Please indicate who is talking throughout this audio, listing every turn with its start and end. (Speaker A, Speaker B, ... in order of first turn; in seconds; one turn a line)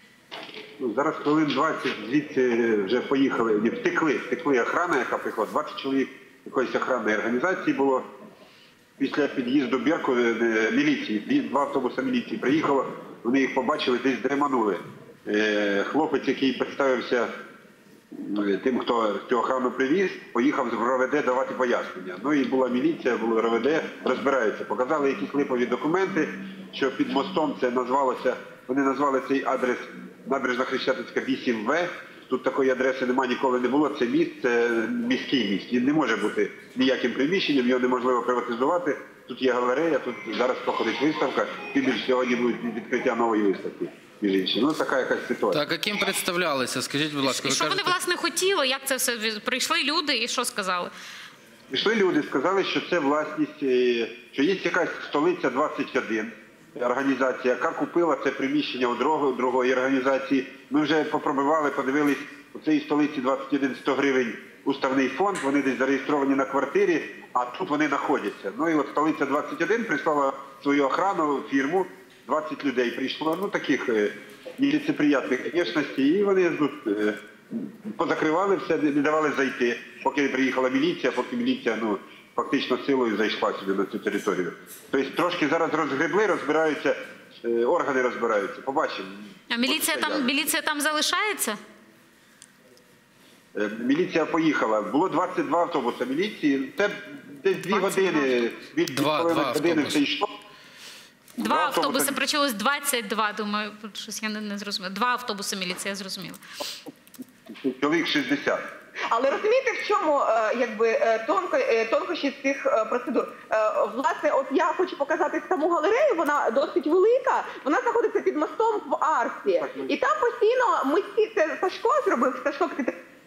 Speaker A: 0.8-8.1
Speaker A: 9.0-17.3
Speaker A: 18.2-45.6
Speaker B: 45.5-48.0
Speaker C: 47.2-50.9
Speaker A: 51.7-90.3
Speaker C: 89.5-91.6
Speaker A: 93.5-100.3
Speaker C: 97.7-98.5
Speaker B: 98.9-100.0
Speaker C: 101.4-106.4
Speaker A: 101.4-102.2
Speaker A: 107.5-108.6
Speaker D: 109.1-123.0
Speaker A: 119.6-120.0